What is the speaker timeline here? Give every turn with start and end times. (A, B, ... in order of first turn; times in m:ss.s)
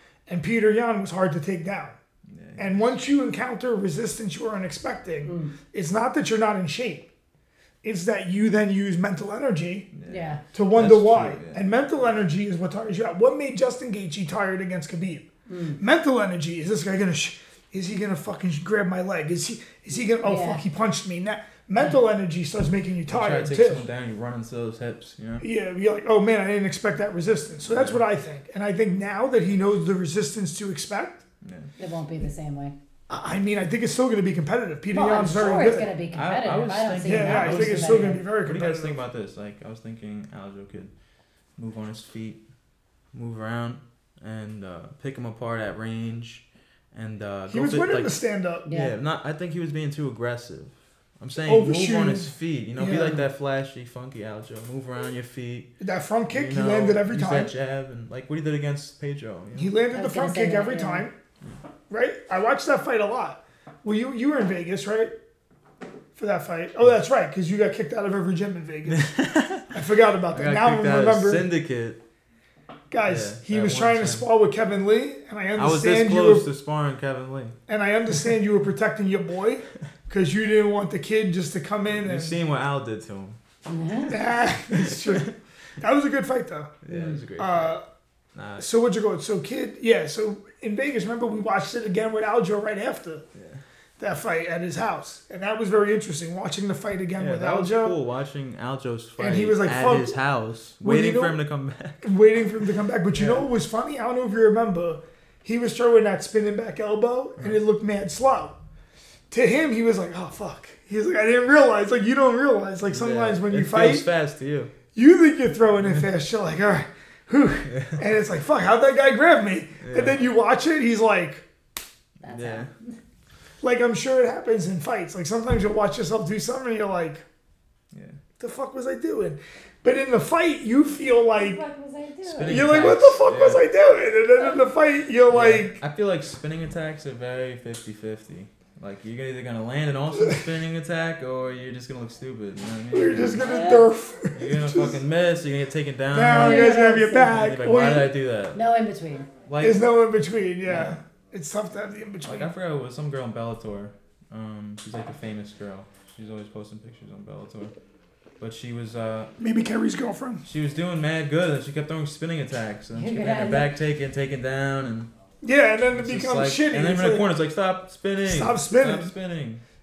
0:00.3-0:02.0 A
0:02.3-0:03.0 B
0:02.6-0:07.1 A
0:05.2-0:05.5 C
0:07.8-0:09.9 A
0:09.9-0:11.6 B
0:10.1-0:10.4 C
0:10.5-0:23.8 A
0:15.5-0:15.8 C
0:20.2-0:20.6 C
0:23.1-0:25.5 B
0:25.4-0:31.2 A
0:27.7-0:28.0 B
0:31.4-0:31.7 B
0:31.8-0:32.8 C
0:33.1-0:35.9 A
0:34.9-0:38.3 C
0:36.1-0:40.9 B
0:37.0-0:39.0 A
0:41.6-0:42.4 B
0:43.1-0:55.7 B
0:47.5-0:48.7 A
0:48.7-0:48.9 C
0:51.4-0:53.2 A
0:55.8-0:57.5 A
0:56.3-0:59.7 B
0:59.6-1:01.1 A
0:59.9-1:01.1 C
1:01.9-1:05.1 A
1:06.2-1:09.1 A
1:08.9-1:09.7 B
1:09.7-1:11.5 A
1:10.3-1:12.0 B
1:12.9-1:16.5 A
1:13.0-1:14.3 B
1:15.6-1:17.6 B
1:17.7-1:22.4 A
1:21.9-1:23.4 B
1:23.7-1:24.2 C
1:24.1-1:26.8 A
1:24.7-1:25.3 B
1:26.8-1:27.8 B
1:26.9-1:27.2 C
1:27.4-1:27.8 A
1:28.3-1:28.7 B
1:28.6-1:33.2 A
1:33.4-1:33.6 B
1:34.0-1:38.0 A
1:37.2-1:42.0 B
1:39.2-1:40.2 A
1:40.8-1:41.4 A
1:42.0-1:48.6 A
1:43.1-1:43.5 B
1:49.3-1:54.1 A
1:52.9-1:54.8 B
1:54.9-2:01.4 A
1:55.8-1:56.1 B
1:57.7-1:58.1 B
1:59.8-2:00.2 B
2:02.2-2:02.7 C
2:02.3-2:02.7 B
2:03.6-2:07.2 A
2:07.9-2:08.2 B
2:08.4-2:11.6 A
2:11.3-2:12.9 C
2:12.3-2:13.7 B
2:12.4-2:15.8 A
2:15.3-2:23.5 B
2:22.9-2:25.0 A
2:23.4-2:23.9 C
2:24.4-2:28.6 B
2:26.1-2:28.1 A
2:26.3-2:27.5 C
2:28.5-2:29.3 C
2:29.5-2:29.9 B
2:29.6-2:32.5 A
2:30.7-2:31.0 B
2:32.2-2:37.7 B
2:38.4-2:39.3 B
2:39.4-2:40.4 A
2:40.4-2:45.1 B
2:43.0-2:43.7 C
2:45.4-2:47.4 A
2:45.9-2:49.6 B
2:48.2-2:49.1 A